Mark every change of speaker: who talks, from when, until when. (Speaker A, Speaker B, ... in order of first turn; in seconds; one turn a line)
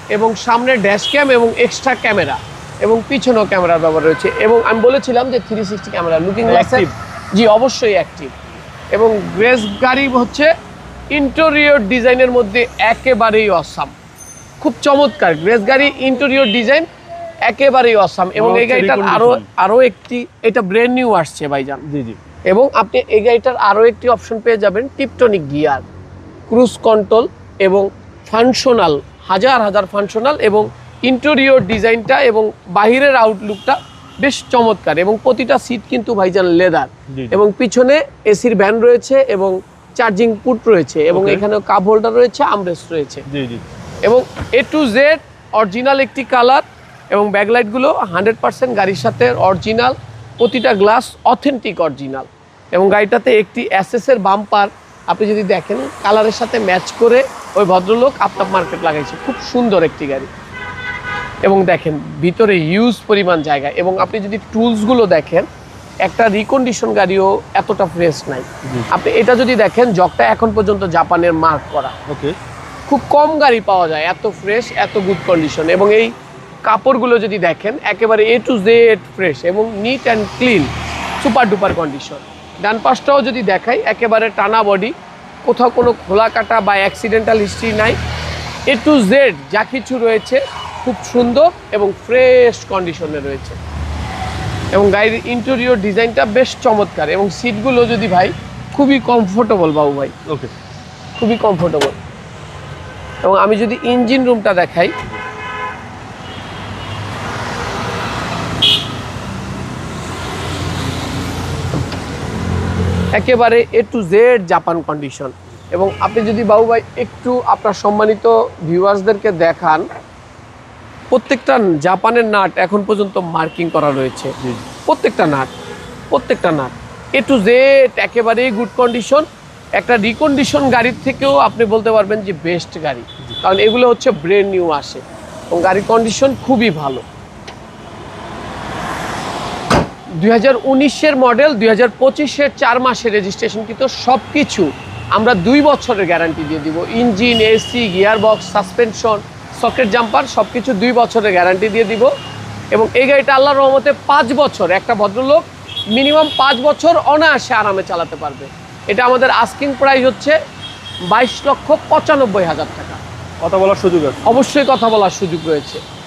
Speaker A: 0.1-8.4
Speaker B: 6.5-6.9
Speaker A: 8.9-10.5
Speaker A: 11.1-13.9
Speaker A: 14.6-16.9
Speaker A: 17.5-21.8
Speaker B: 18.4-19.4
Speaker B: 21.9-22.2
Speaker A: 22.5-25.8
Speaker A: 26.5-43.2
Speaker B: 37.1-37.4
Speaker B: 41.1-41.4
Speaker B: 43.3-43.6
Speaker A: 44.0-60.3
Speaker A: 61.4-65.5
Speaker A: 66.0-71.9
Speaker B: 72.1-72.3
Speaker A: 72.9-76.1
Speaker A: 76.6-84.9
Speaker A: 85.5-88.0
Speaker A: 88.7-93.6
Speaker A: 94.7-100.1
Speaker B: 100.3-100.5
Speaker A: 101.2-102.0
Speaker A: 103.2-104.9
Speaker A: 113.1-119.8
Speaker A: 121.1-124.3
Speaker A: 124.9-125.5
Speaker A: 126.1-137.1
Speaker A: 140.2-152.1
Speaker A: 152.7-160.4
Speaker A: 161.1-163.0
Speaker B: 163.4-164.4
Speaker A: 164.3-165.8